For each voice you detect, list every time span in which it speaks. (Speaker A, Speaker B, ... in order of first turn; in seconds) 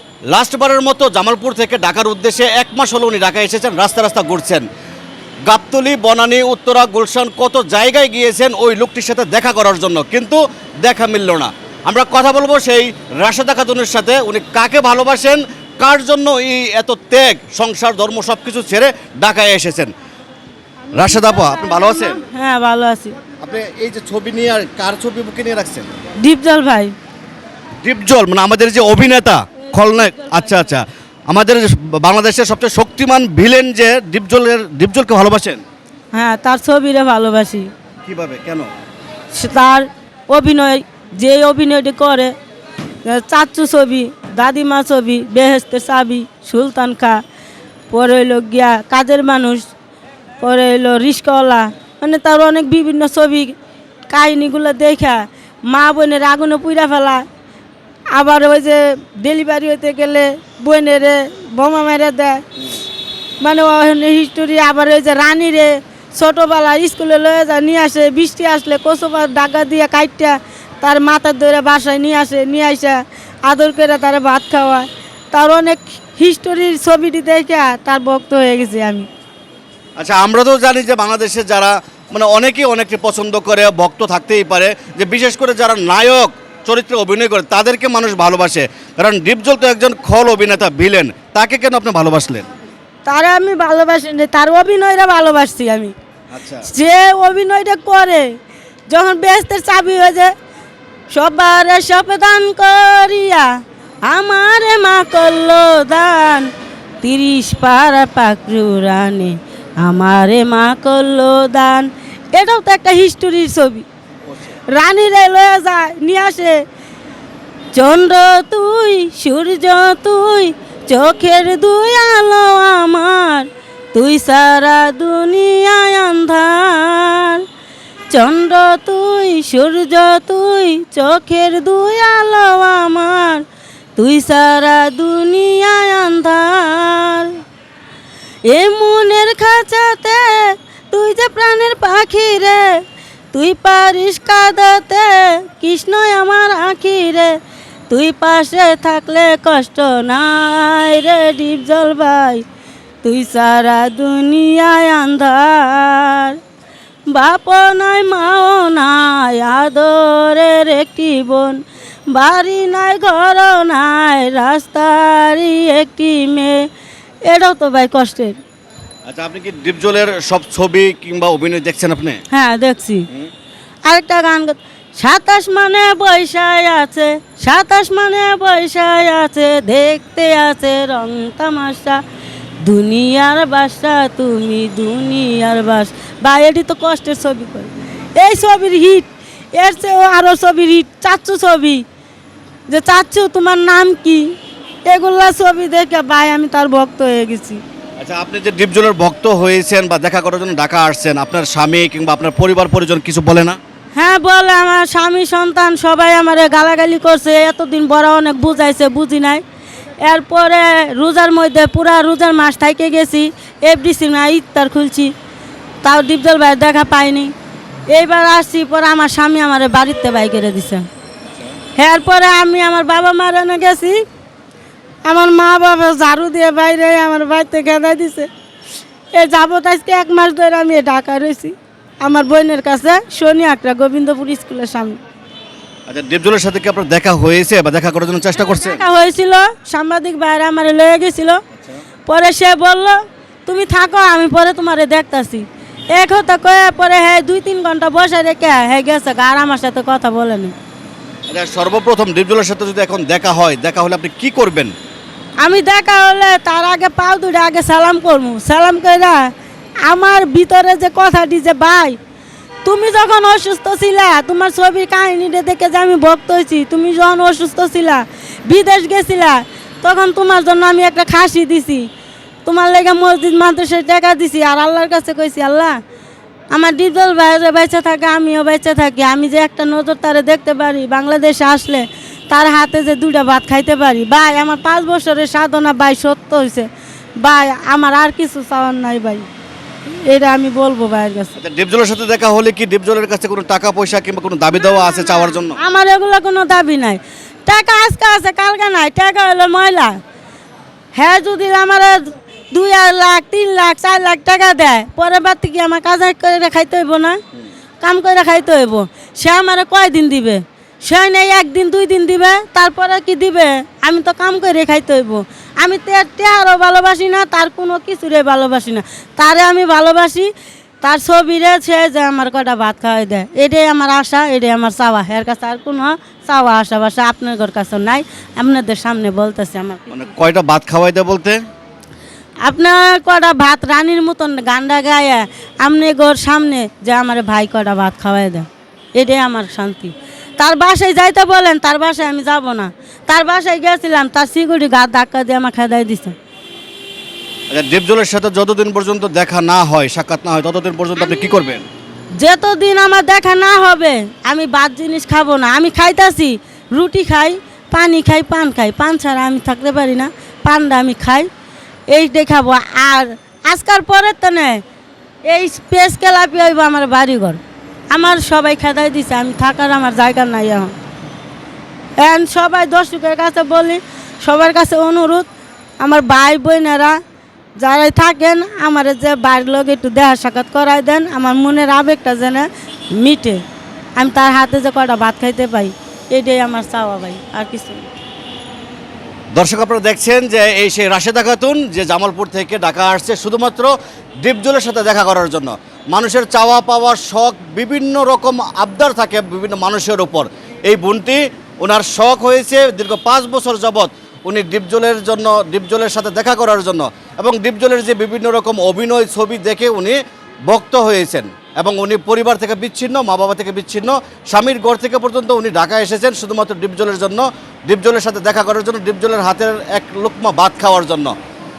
Speaker A: 0.3-4.7, 5.5-19.9, 20.9-22.2, 23.4-25.9, 27.8-35.6, 38.0-38.7, 80.0-92.5, 96.3-96.6, 169.1-172.2, 198.0-203.6, 235.9-238.8, 251.3-254.7, 291.4-295.6, 329.9-331.4, 347.5-351.6, 389.3-421.1
Speaker B: 22.1-23.1, 26.2-26.9, 36.1-37.7, 39.3-42.3, 43.0-47.2, 47.9-49.7, 50.4-53.5, 54.1-57.2, 58.1-62.4, 63.4-79.1, 93.0-95.9, 96.6-98.3, 98.9-100.3, 101.1-103.5, 104.0-106.5, 107.0-113.8, 114.7-116.6, 117.7-127.4, 128.1-133.4, 134.0-137.4, 138.4-142.8, 143.3-147.3, 147.9-152.4, 153.0-156.4, 157.1-166.7, 167.2-168.4, 172.3-173.1, 173.9-182.0, 182.6-191.8, 192.7-194.3, 194.9-197.6, 203.9-209.4, 210.0-215.1, 215.8-217.3, 217.9-220.8, 221.8-224.0, 225.1-228.3, 229.1-235.0, 238.4-241.4, 242.1-250.5, 255.4-259.3, 259.9-262.0, 262.6-271.9, 272.4-275.8, 276.5-286.7, 287.2-289.3, 289.9-291.4, 295.6-299.9, 300.9-307.2, 307.8-320.3, 320.8-330.0, 332.4-346.1, 352.2-361.3, 361.9-364.6, 365.3-370.8, 372.0-375.3, 375.8-377.0, 377.6-383.4, 383.9-387.9